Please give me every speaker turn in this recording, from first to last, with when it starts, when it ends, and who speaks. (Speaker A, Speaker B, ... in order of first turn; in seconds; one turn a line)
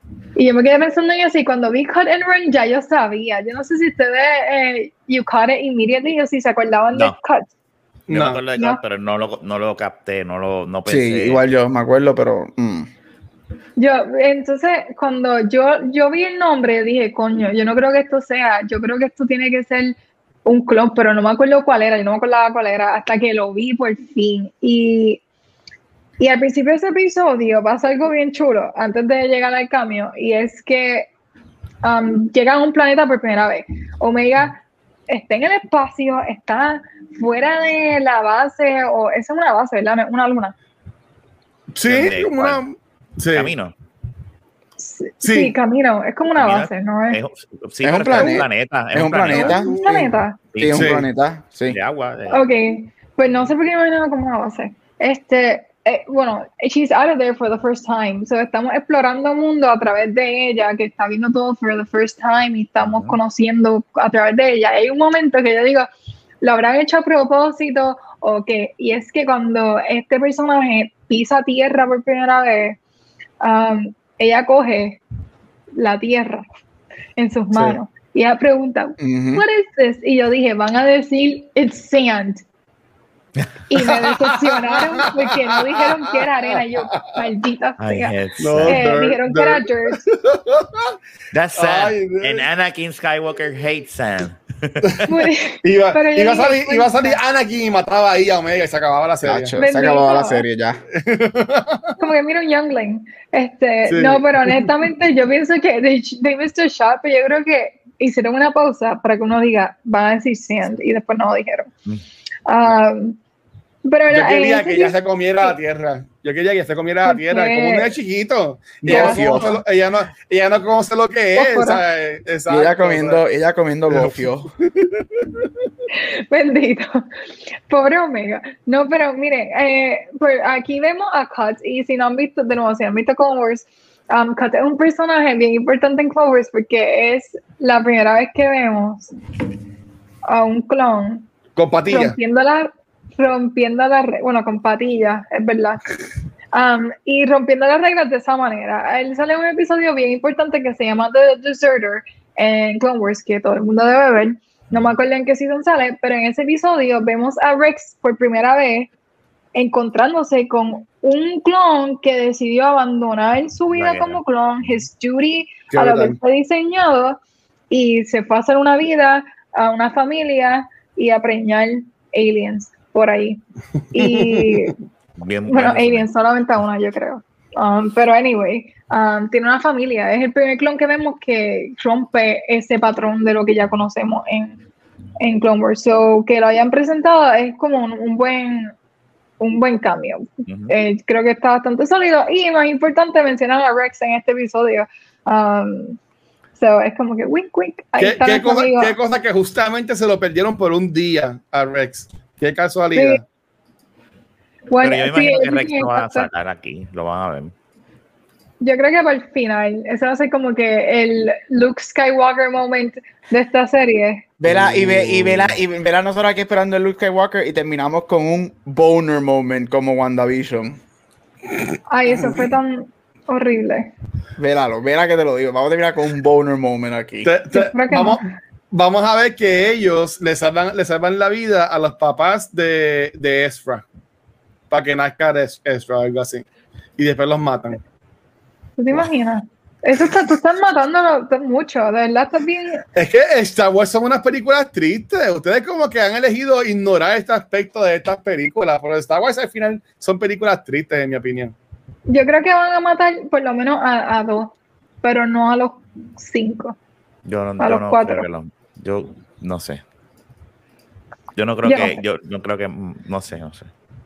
Speaker A: 0.4-7.5
Speaker B: 8.1-8.4
Speaker C: 8.1-11.4
Speaker D: 10.9-12.9
Speaker A: 13.8-25.2
Speaker A: 26.2-31.1
Speaker A: 31.8-40.5
Speaker B: 41.7-43.5
Speaker C: 41.9-42.6
Speaker C: 43.3-43.7
Speaker A: 44.8-47.2
Speaker B: 45.2-45.5
Speaker C: 46.4-49.6
Speaker D: 47.8-51.8
Speaker B: 49.4-49.7
Speaker A: 49.4-50.4
Speaker C: 50.5-51.0
Speaker B: 50.7-51.0
Speaker C: 51.7-52.5
Speaker A: 52.3-65.9
Speaker C: 62.8-63.2
Speaker A: 66.4-72.8
Speaker A: 73.4-75.0
Speaker A: 75.8-76.4
Speaker A: 77.2-82.4
Speaker B: 77.5-77.8
Speaker D: 79.0-79.4
Speaker A: 83.7-90.0
Speaker B: 83.8-85.3
Speaker B: 86.9-87.2
Speaker C: 87.8-88.8
Speaker B: 88.4-91.0
Speaker C: 91.3-95.0
Speaker B: 91.6-92.5
Speaker B: 94.8-95.1
Speaker A: 95.1-97.2
Speaker B: 95.6-99.5
Speaker D: 99.2-100.8
Speaker A: 99.6-100.4
Speaker B: 100.9-102.0
Speaker A: 102.0-111.7
Speaker B: 103.9-104.7
Speaker A: 112.5-113.2
Speaker A: 113.8-115.5
Speaker B: 114.1-123.2
Speaker A: 117.0-117.9
Speaker D: 118.8-119.5
Speaker A: 118.9-119.5
Speaker A: 121.3-121.8
Speaker D: 122.5-124.5
Speaker B: 124.7-125.5
Speaker A: 125.9-127.1
Speaker A: 127.7-139.1
Speaker A: 140.3-141.3
Speaker B: 141.6-142.2
Speaker A: 141.9-145.8
Speaker A: 146.5-158.9
Speaker A: 159.6-167.2
Speaker C: 163.7-164.8
Speaker B: 165.7-166.2
Speaker A: 167.7-173.4
Speaker A: 173.9-174.8
Speaker B: 173.9-174.7
Speaker C: 175.2-176.1
Speaker A: 175.5-184.6
Speaker A: 185.2-188.7
Speaker A: 189.4-196.0
Speaker C: 190.5-190.7
Speaker A: 196.6-198.9
Speaker B: 198.0-203.2
Speaker A: 202.9-203.2
Speaker A: 204.7-206.3
Speaker C: 204.8-207.5
Speaker A: 208.6-214.3
Speaker D: 214.4-220.8
Speaker B: 214.4-215.4
Speaker A: 221.9-223.9
Speaker B: 222.1-222.4
Speaker D: 224.4-227.3
Speaker B: 227.2-233.8
Speaker A: 227.5-228.3
Speaker B: 234.7-236.4
Speaker B: 237.0-237.8
Speaker A: 238.8-242.8
Speaker B: 242.9-251.6
Speaker A: 252.1-256.8
Speaker C: 257.2-259.8
Speaker A: 257.6-258.2
Speaker C: 261.3-263.7
Speaker A: 261.6-262.0